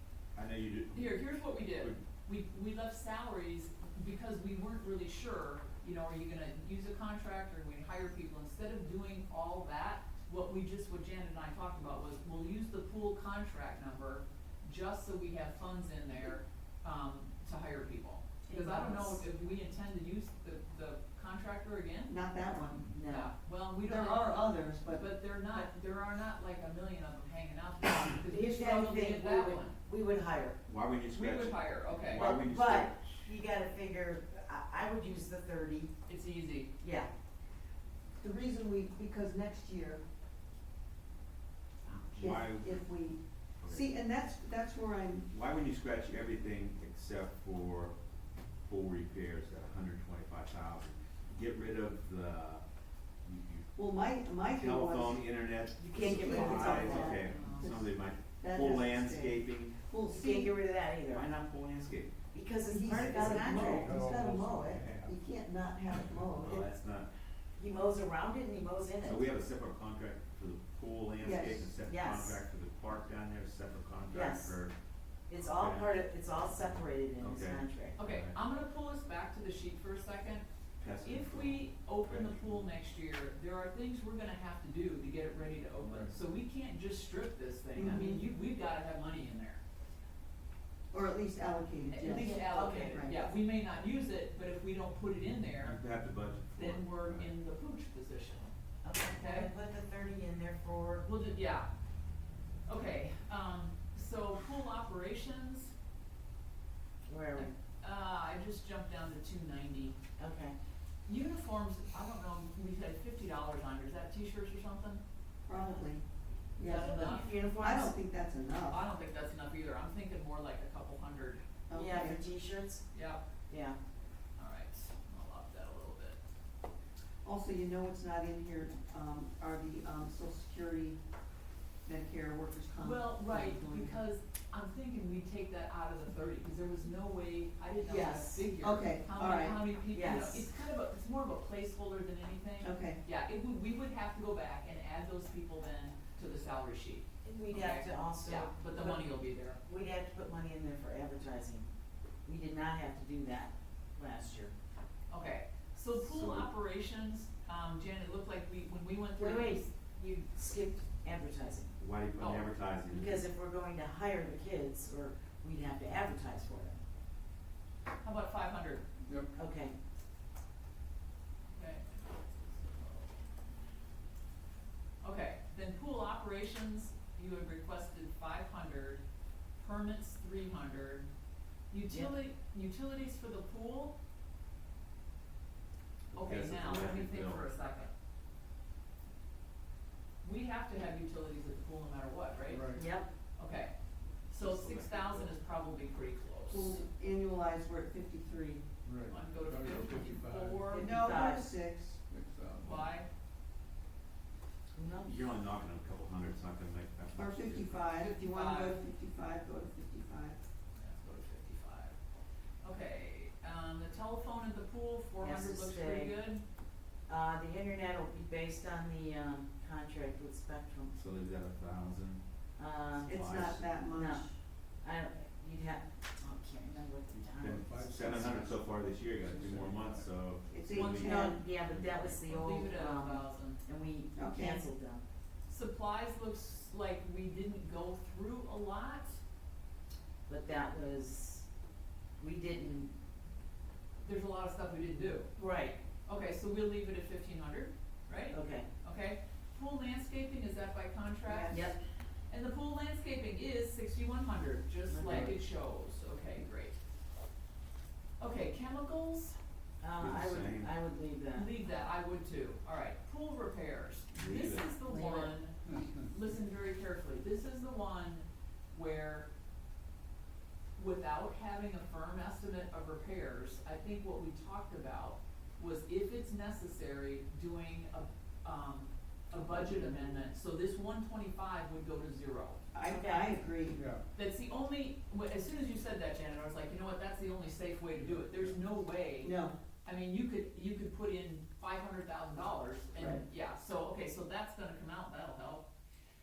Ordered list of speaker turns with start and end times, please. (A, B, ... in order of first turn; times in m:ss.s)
0:00.3-0:02.0 A
0:00.9-0:22.1 B
0:18.5-0:19.2 C
0:22.1-0:22.9 D
0:22.8-0:23.3 C
0:23.0-0:29.8 B
0:23.8-0:25.0 D
0:28.2-0:30.6 C
0:30.6-0:33.3 A
0:31.1-0:32.3 B
0:32.1-0:35.9 C
0:36.1-0:36.7 B
0:36.8-0:37.1 C
0:38.2-0:40.0 D
0:41.8-0:42.4 B
0:42.2-0:42.8 A
0:42.2-0:45.3 D
0:43.6-0:43.9 A
0:45.3-0:47.9 A
0:48.6-0:52.6 A
0:53.2-0:53.8 A
0:53.8-0:55.2 D
0:54.4-0:59.8 A
0:55.8-0:57.3 C
0:55.9-1:00.5 D
0:57.1-0:57.7 B
1:00.1-1:01.3 C
1:01.1-1:02.1 A
1:02.3-1:04.0 C
1:02.6-1:06.7 D
1:03.2-1:05.1 E
1:06.0-1:06.2 E
1:06.2-1:07.1 A
1:07.6-1:09.3 C
1:09.0-1:14.7 A
1:11.2-1:11.7 D
1:11.8-1:12.4 C
1:14.1-1:14.6 C
1:15.3-1:18.0 C
1:15.4-1:15.9 A
1:16.6-1:18.3 A
1:18.0-1:20.4 B
1:20.8-1:22.6 A
1:21.0-1:29.6 B
1:25.8-1:26.1 E
1:27.7-1:28.2 D
1:30.9-1:32.4 D
1:31.9-1:35.8 B
1:32.0-1:33.0 C
1:32.9-1:33.3 D
1:35.6-1:37.3 A
1:36.5-1:38.5 B
1:38.8-1:41.0 C
1:39.1-1:39.5 B
1:41.0-1:41.7 B
1:42.6-1:45.7 B
1:47.0-1:47.5 C
1:47.4-1:50.0 B
1:50.2-1:50.6 C
1:51.0-1:55.0 B
1:55.5-1:56.0 D
1:55.5-1:55.8 C
1:56.6-1:58.8 D
1:56.6-1:57.3 B
1:56.7-1:58.0 C
1:58.7-2:01.4 B
2:01.7-2:02.2 D
2:01.7-2:02.8 C
2:02.9-2:03.2 B
2:03.5-2:03.8 C
2:04.4-2:06.2 B
2:07.2-2:11.0 D
2:11.8-2:13.9 D
2:12.8-2:29.6 B
2:17.8-2:19.6 D
2:19.9-2:20.5 C
2:22.6-2:23.0 D
2:27.2-2:31.7 C
2:32.2-2:34.5 C
2:35.1-2:39.7 B
2:36.0-2:36.5 A
2:39.2-2:41.7 C
2:41.8-2:43.2 A
2:42.2-2:42.5 B
2:42.9-2:46.8 C
2:48.0-2:48.8 B
2:49.0-2:49.3 E
2:49.3-2:49.7 C
2:51.5-2:53.1 B
2:55.0-2:59.0 B
2:59.6-3:01.1 B
3:01.7-3:03.9 B
3:06.1-3:07.4 A
3:06.1-3:07.9 B
3:10.2-3:12.7 B
3:12.5-3:12.8 E
3:12.7-3:13.1 C
3:13.4-3:13.7 B
3:14.3-3:16.8 B
3:14.3-3:15.3 A
3:16.5-3:18.6 D
3:18.8-3:20.8 E
3:19.1-3:21.2 B
3:20.7-3:22.0 D
3:20.7-3:21.4 C
3:22.1-3:22.9 E
3:22.6-3:23.1 B
3:24.7-3:25.2 C
3:25.0-3:27.8 A
3:27.2-3:30.4 D
3:27.9-3:28.8 B
3:30.7-3:32.0 B
3:32.6-3:36.4 B
3:35.2-3:36.1 C
3:37.1-3:40.9 C
3:40.9-3:42.2 A
3:42.6-3:43.2 C
3:43.0-3:43.7 A
3:43.0-3:44.3 D
3:43.9-3:44.3 C
3:44.8-3:48.2 C
3:47.4-3:51.2 A
3:47.4-3:50.1 E
3:50.5-3:51.4 D
3:50.7-3:53.6 B
3:51.0-3:55.0 C
3:54.1-3:54.6 D
3:55.4-3:59.2 B
4:00.3-4:01.5 C
4:02.2-4:02.9 C
4:04.0-4:05.3 B
4:05.4-4:05.8 C
4:06.0-4:11.7 B
4:08.3-4:08.7 C
4:11.3-4:11.8 C
4:12.3-4:16.8 B
4:14.9-4:15.3 C
4:18.2-4:19.4 B
4:19.8-4:21.5 C
4:20.0-4:20.7 A
4:21.3-4:29.3 B
4:24.1-4:24.7 A
4:24.9-4:25.3 C
4:30.8-4:42.6 B
4:39.5-4:40.1 D
4:42.7-4:43.8 D
4:42.8-4:43.3 C
4:43.7-4:44.0 E
4:44.1-4:49.3 B
4:48.0-4:48.6 E
4:49.2-4:49.5 D
4:49.8-4:55.6 B